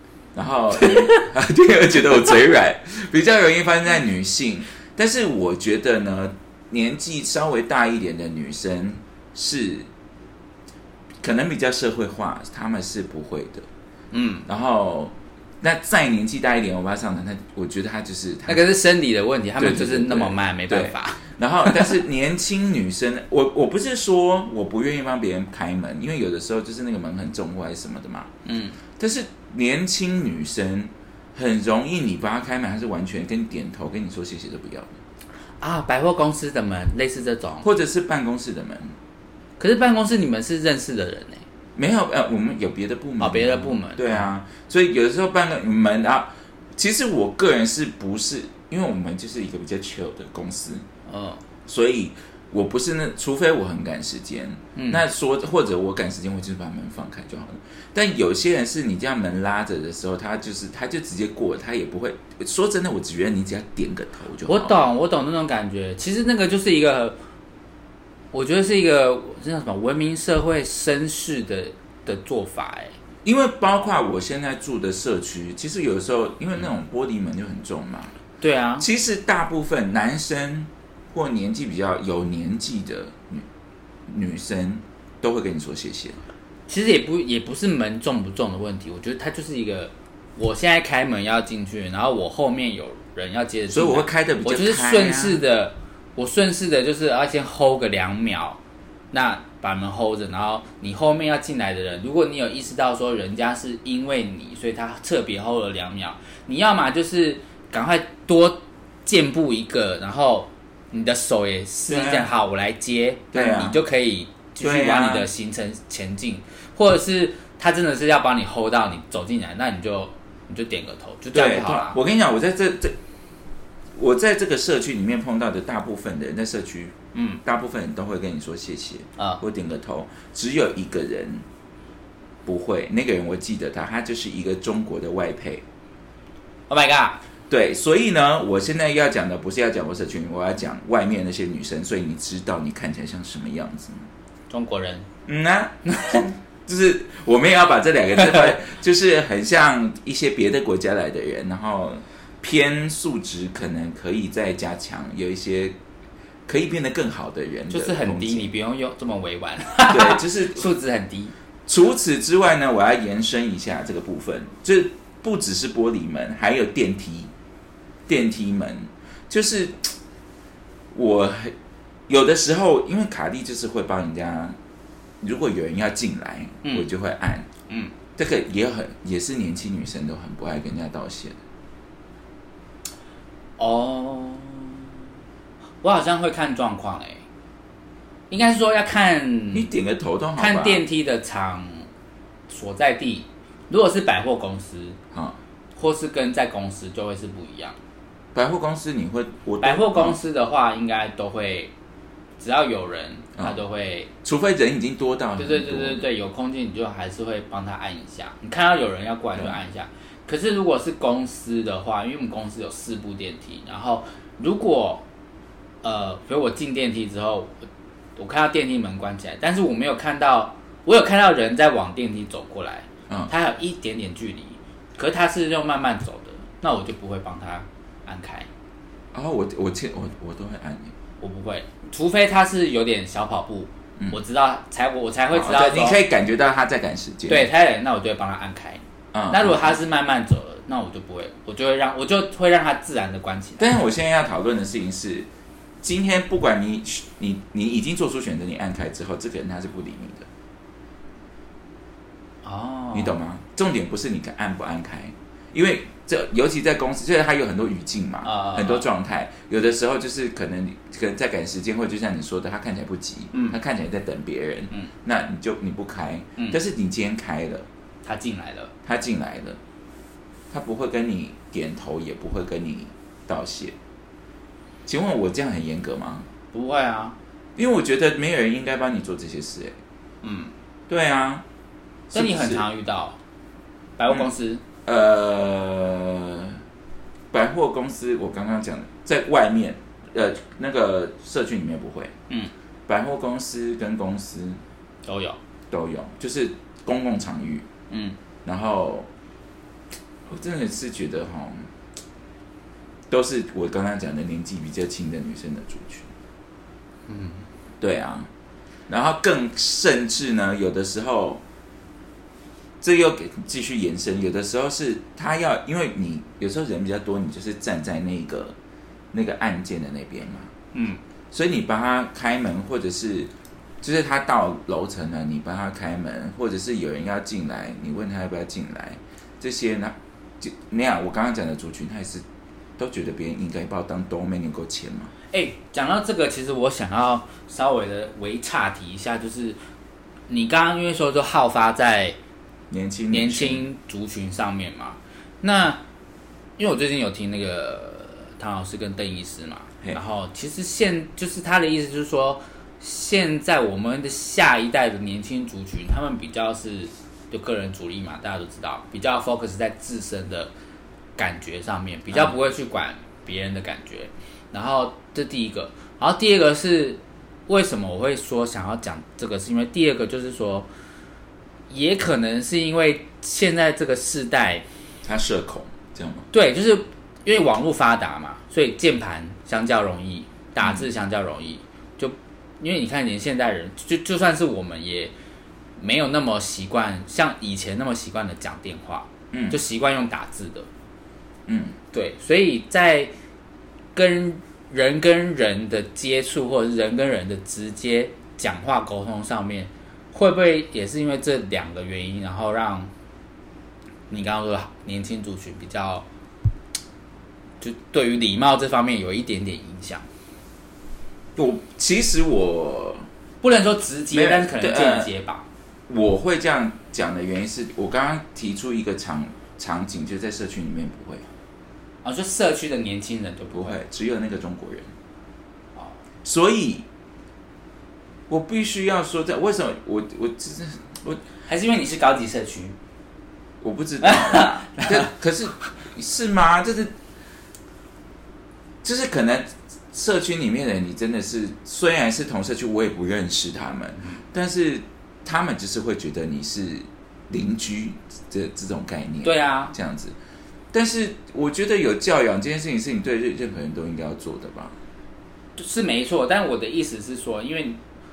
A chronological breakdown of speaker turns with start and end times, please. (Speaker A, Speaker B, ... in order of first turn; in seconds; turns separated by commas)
Speaker A: 0.3-9.9, Speaker A: 11.2-13.7, Speaker B: 14.1-14.4, Speaker A: 14.4-18.6, Speaker B: 18.5-22.0, Speaker A: 19.6-28.3, Speaker B: 28.4-28.8, Speaker A: 29.0-34.9, Speaker B: 35.6-37.7, Speaker A: 37.6-38.9, Speaker B: 39.6-41.4, Speaker A: 41.8-50.8, Speaker B: 43.2-44.3, Speaker B: 51.1-51.4, Speaker A: 51.6-64.8, Speaker B: 54.7-55.0, Speaker B: 64.5-67.2, Speaker B: 68.3-72.9, Speaker A: 73.2-78.1, Speaker B: 78.4-78.8, Speaker A: 78.8-83.5, Speaker A: 84.1-86.2, Speaker B: 86.7-98.6, Speaker A: 93.7-95.4, Speaker B: 99.1-122.0, Speaker A: 111.9-112.3, Speaker A: 113.3-113.8, Speaker A: 114.6-115.3, Speaker A: 121.3-122.9, Speaker A: 124.0-131.4, Speaker B: 127.1-127.4, Speaker A: 132.4-135.6, Speaker B: 136.7-137.2, Speaker A: 137.5-144.1, Speaker B: 144.5-145.1, Speaker A: 145.2-155.8, Speaker A: 156.5-158.5, Speaker B: 157.7-161.3, Speaker A: 159.9-160.7, Speaker A: 161.7-167.3, Speaker A: 168.1-169.9, Speaker A: 170.9-171.5, Speaker A: 172.1-174.6, Speaker A: 175.2-177.5, Speaker A: 178.2-181.4, Speaker B: 183.6-184.9, Speaker B: 185.8-187.2, Speaker B: 188.3-189.7, Speaker A: 189.5-190.8, Speaker B: 190.4-191.9, Speaker B: 192.5-195.0, Speaker A: 195.1-195.4, Speaker B: 195.8-197.8, Speaker A: 198.3-200.2, Speaker B: 199.6-201.7, Speaker B: 202.4-204.1, Speaker A: 204.2-206.0, Speaker B: 205.4-215.0, Speaker B: 215.8-228.5, Speaker A: 229.1-230.9, Speaker B: 231.2-236.0, Speaker A: 235.3-237.5, Speaker B: 237.3-243.7, Speaker A: 239.1-239.7, Speaker A: 243.6-245.3, Speaker A: 245.8-250.3, Speaker B: 252.4-253.2, Speaker A: 252.9-267.7, Speaker B: 258.2-258.8, Speaker B: 268.1-268.7, Speaker A: 268.8-269.6, Speaker A: 270.5-273.7, Speaker A: 274.9-276.3, Speaker B: 276.5-277.1, Speaker A: 277.6-279.8, Speaker B: 280.2-280.5, Speaker A: 280.9-281.4, Speaker A: 282.1-282.6, Speaker B: 282.1-283.2, Speaker B: 284.0-284.6, Speaker A: 284.8-286.6, Speaker A: 287.3-292.1, Speaker A: 292.9-294.6, Speaker B: 295.1-295.4, Speaker A: 295.7-297.6, Speaker B: 297.9-298.1, Speaker A: 298.4-299.1, Speaker A: 300.3-301.7, Speaker A: 303.1-306.1, Speaker B: 307.1-307.4, Speaker A: 307.8-308.3, Speaker A: 308.9-311.4, Speaker A: 312.8-318.6, Speaker A: 319.1-320.5, Speaker B: 320.7-321.0, Speaker A: 321.3-323.3, Speaker A: 323.8-332.2, Speaker A: 332.8-335.1, Speaker B: 335.3-339.6, Speaker B: 340.3-342.1, Speaker A: 342.7-343.6, Speaker B: 343.1-345.8, Speaker B: 346.6-360.5, Speaker B: 361.2-370.7, Speaker B: 371.7-374.6, Speaker A: 375.0-376.3, Speaker B: 376.3-385.1, Speaker B: 385.8-390.7, Speaker A: 389.3-389.6, Speaker A: 391.5-391.8, Speaker B: 391.9-393.1, Speaker B: 393.9-402.9, Speaker B: 404.1-406.1, Speaker B: 407.6-410.1, Speaker A: 411.4-413.1, Speaker B: 413.4-415.4, Speaker A: 414.1-415.1, Speaker A: 415.9-421.3, Speaker B: 422.0-423.8, Speaker A: 423.5-424.9, Speaker A: 426.2-426.9, Speaker A: 428.3-431.2, Speaker B: 431.5-432.8, Speaker A: 433.6-436.9, Speaker B: 434.0-435.1, Speaker A: 438.8-450.1, Speaker B: 449.2-449.7, Speaker A: 450.7-454.8, Speaker B: 455.6-457.8